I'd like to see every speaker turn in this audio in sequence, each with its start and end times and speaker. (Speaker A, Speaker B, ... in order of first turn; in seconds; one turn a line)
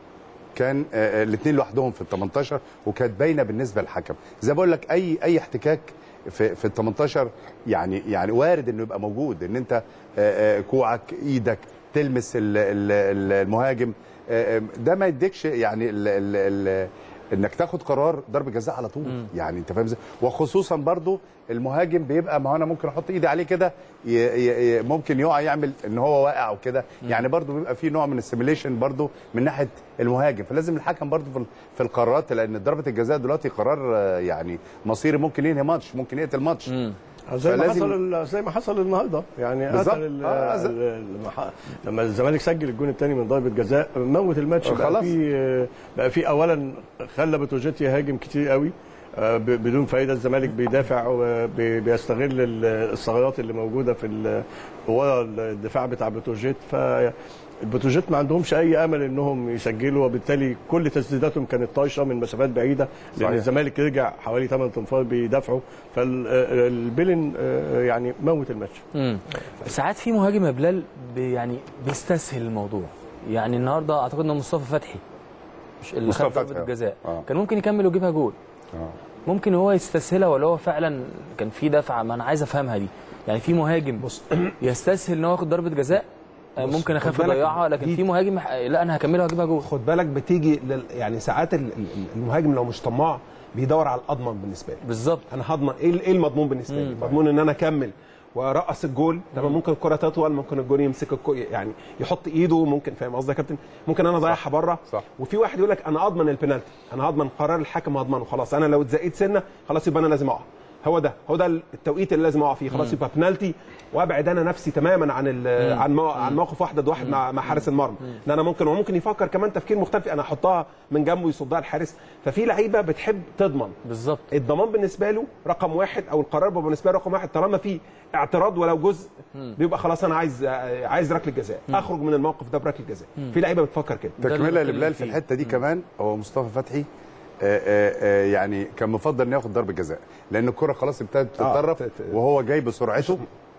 Speaker A: 0.6-36.7
Speaker B: 36.7-37.0
Speaker C: 37.3-57.1
Speaker A: 37.4-38.0
Speaker A: 39.7-40.7
Speaker A: 44.6-45.1
Speaker C: 57.6-68.8
Speaker B: 68.9-75.0
Speaker B: 75.8-78.3
Speaker A: 76.0-77.2
Speaker B: 79.2-84.0
Speaker D: 84.0-84.5
Speaker B: 84.6-89.7
Speaker D: 86.6-88.0
Speaker D: 89.6-123.8
Speaker B: 94.8-95.2
Speaker B: 96.7-97.1
Speaker B: 115.6-116.3
Speaker B: 123.8-124.3
Speaker D: 124.3-134.2
Speaker A: 134.2-136.9
Speaker B: 134.2-135.2
Speaker A: 137.4-143.2
Speaker D: 141.4-142.1